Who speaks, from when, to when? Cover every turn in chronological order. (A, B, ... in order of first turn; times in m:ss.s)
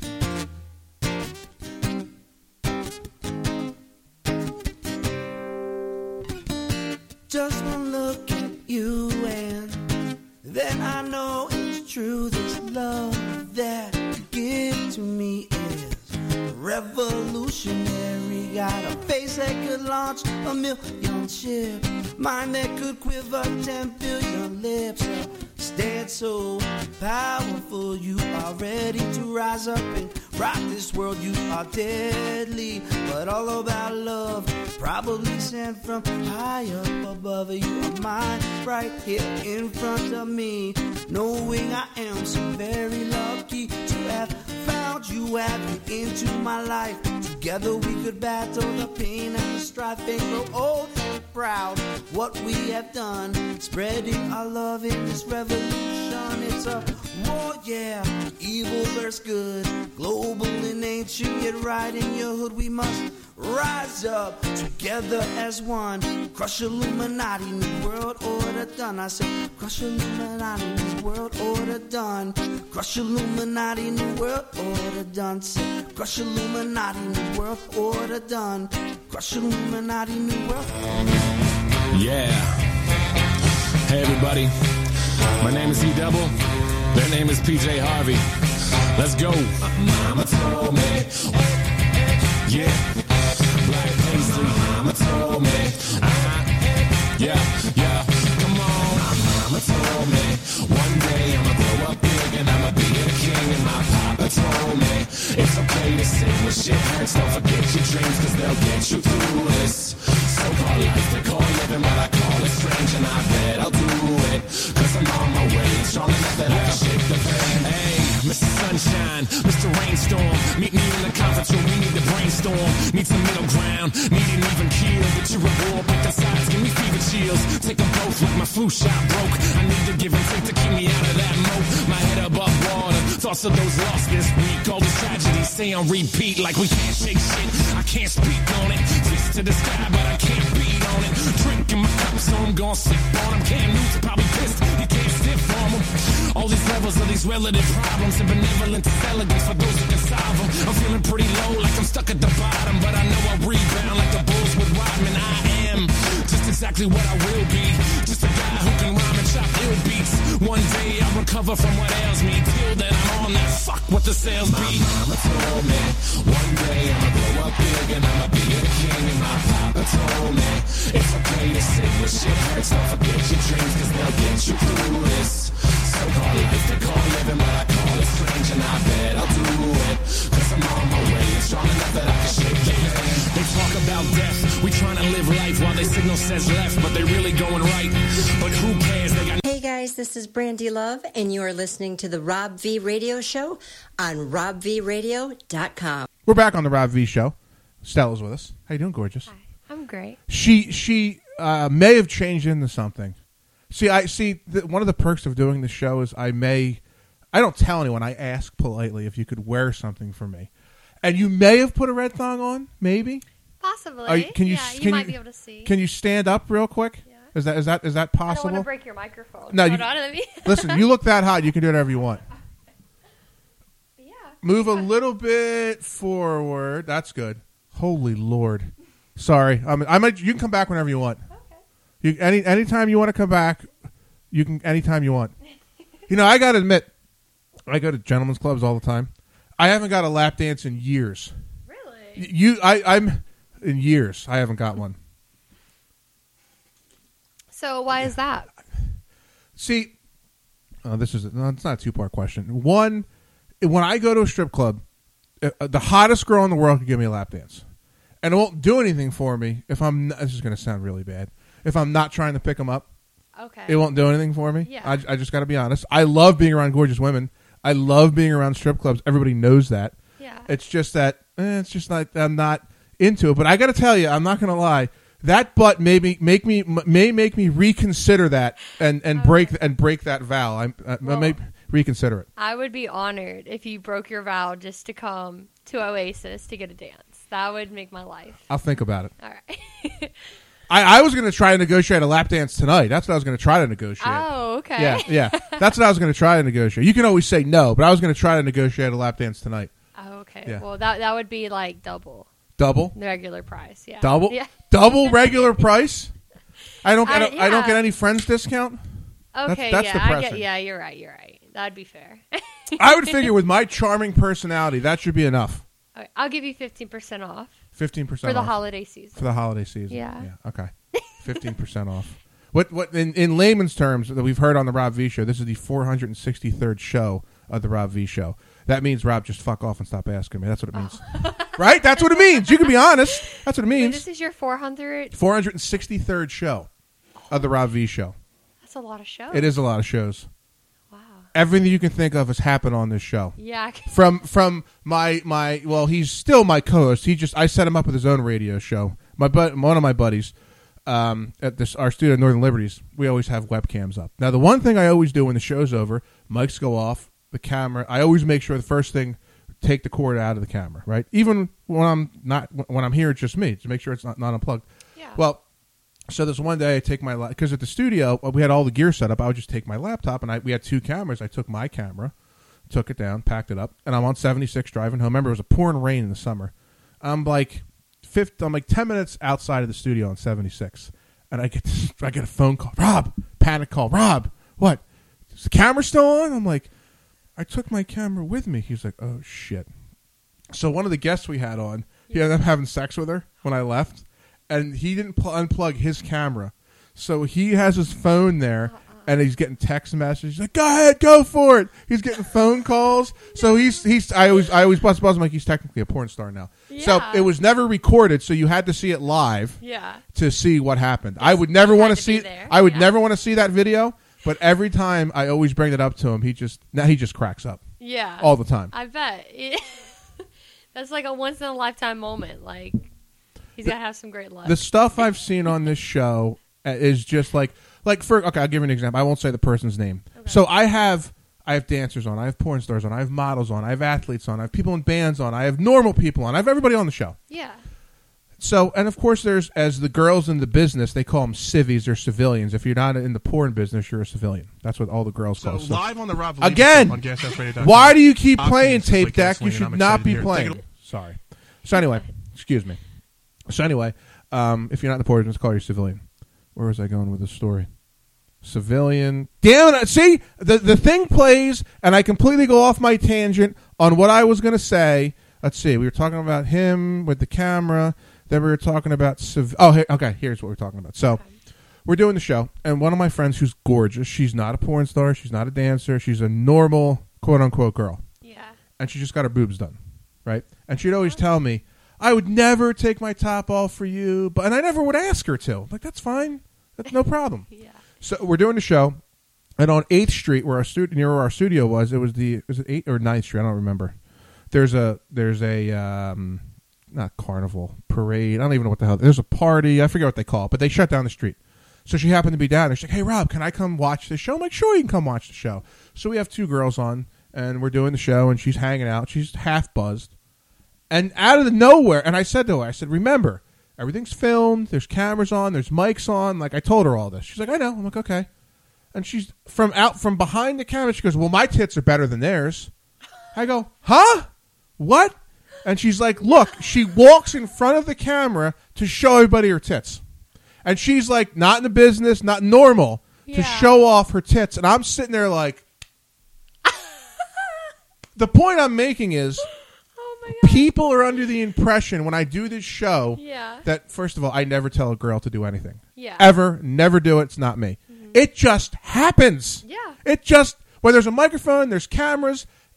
0:07.3-0:09.9 A
0:10.4-1:21.2 A
1:21.9-1:22.6 B
1:23.9-1:24.5 B
1:25.4-1:26.4 B
1:26.9-1:28.3 B
1:29.0-1:31.5 B
1:32.4-1:32.9 B
1:33.6-1:36.6 B
1:37.1-3:09.4 B
3:09.4-3:16.1 C
3:16.3-3:19.3 D
3:19.3-3:20.2 E
3:20.3-3:23.2 D
3:23.7-3:26.8 D
3:27.3-3:30.5 D
3:31.0-3:33.2 D
3:33.6-3:35.8 E
3:34.1-3:38.7 D
3:38.3-3:40.8 E
3:39.5-3:42.2 D
3:44.0-3:44.9 E
3:44.4-3:51.2 D
3:51.3-3:51.6 E
3:52.0-3:53.7 D
3:54.3-3:55.3 D
3:56.1-3:56.9 D
3:57.7-4:01.3 D
4:01.7-4:02.3 E
4:02.2-4:05.0 D
4:07.5-4:08.5 E
4:09.6-4:09.9 D
4:10.8-4:13.1 D
4:13.6-4:14.8 D
4:15.4-4:17.6 D
4:18.2-4:22.9 D
4:23.4-4:23.9 E
4:23.7-4:30.0 D
4:24.6-4:25.0 E
4:30.2-4:30.5 E
4:30.5-4:42.3 D
4:39.2-4:39.6 E
4:41.0-4:41.4 E
4:42.4-4:48.4 E
4:48.5-4:49.1 D
4:49.2-4:50.2 E
4:50.7-4:59.7 D
4:54.0-4:55.7 E
5:00.0-5:02.3 E
5:02.6-5:02.9 D
5:02.9-5:05.7 E
5:04.0-5:06.1 D
5:06.8-5:08.8 D
5:07.0-5:07.8 E
5:09.3-5:13.3 E
5:09.5-5:10.4 D
5:12.8-5:15.6 D
5:16.0-5:17.6 E
5:17.8-5:18.6 D
5:18.2-5:19.3 E
5:19.1-5:34.0 D
5:19.9-5:20.3 E
5:30.7-5:35.1 E
5:35.1-5:36.7 D
5:37.2-5:37.5 E
5:37.3-5:38.2 D
5:38.6-5:39.6 E
5:39.3-5:40.3 D
5:40.9-5:41.3 E
5:41.3-5:50.3 D
5:43.4-5:44.1 E
5:50.9-6:05.4 D
6:05.0-6:05.2 E
6:06.1-6:12.1 D
6:12.7-6:24.8 D
6:25.4-6:26.7 D
6:27.4-6:29.7 D
6:30.5-6:49.6 D
6:38.7-6:39.1 E
6:43.3-6:43.9 E
6:46.7-6:47.3 E
6:49.6-6:50.0 E
6:50.1-6:57.6 D
6:51.2-6:52.9 E
6:57.8-7:00.0 E
6:58.2-6:58.7 D
7:00.7-7:02.9 E
7:03.6-7:05.1 E
7:04.4-7:17.2 D
7:10.2-7:10.4 E
7:17.3-7:17.6 E
7:18.4-7:27.0 D
7:25.4-7:30.6 F
7:27.6-7:32.8 D
7:31.7-7:32.0 E
7:33.5-7:36.0 D
7:36.6-7:37.7 D
7:38.4-7:51.2 D
7:51.9-7:58.0 D
7:58.2-7:58.6 E
7:58.8-8:07.5 D
8:07.5-8:07.8 E
8:08.0-8:09.0 D
8:09.6-8:14.0 D
8:14.5-8:30.1 D
8:30.9-8:38.3 D
8:38.9-8:42.7 D
8:43.3-8:50.0 D
8:50.6-8:55.6 D
8:53.3-8:53.8 E
8:56.7-8:57.5 E
8:58.2-8:59.5 D
9:00.0-9:00.7 E
9:00.4-9:12.5 D
9:03.2-9:03.6 E
9:06.0-9:06.3 E
9:07.9-9:08.2 E
9:09.6-9:10.0 E